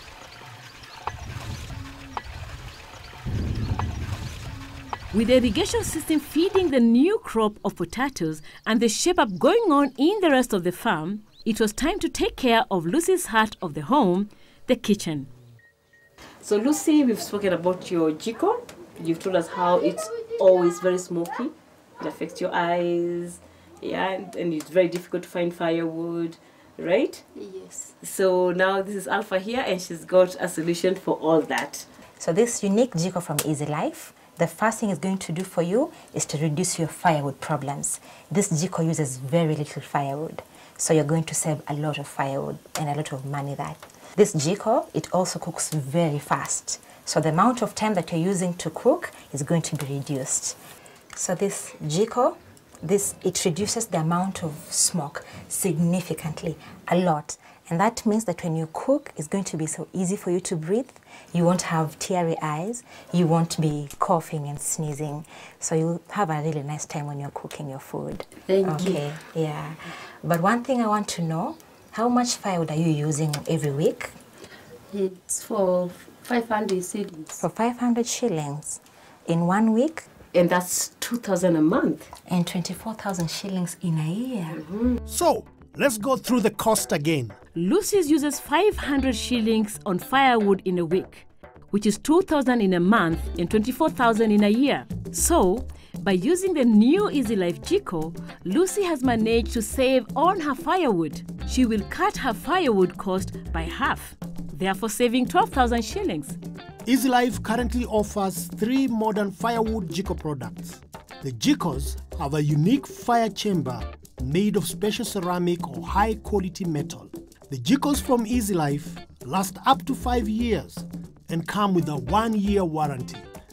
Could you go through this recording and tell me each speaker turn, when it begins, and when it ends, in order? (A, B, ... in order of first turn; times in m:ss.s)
0:05.1-0:15.3 A
0:16.4-0:27.2 B
0:27.3-0:27.9 C
0:28.0-0:31.9 B
0:32.2-0:50.6 D
0:51.1-1:14.2 D
1:08.4-1:09.0 C
1:14.9-1:17.4 C
1:17.4-1:20.0 D
1:20.3-1:22.1 B
1:22.2-1:24.6 D
1:24.5-1:25.0 B
1:25.0-1:27.4 E
1:27.5-1:46.4 A
1:46.8-2:03.3 E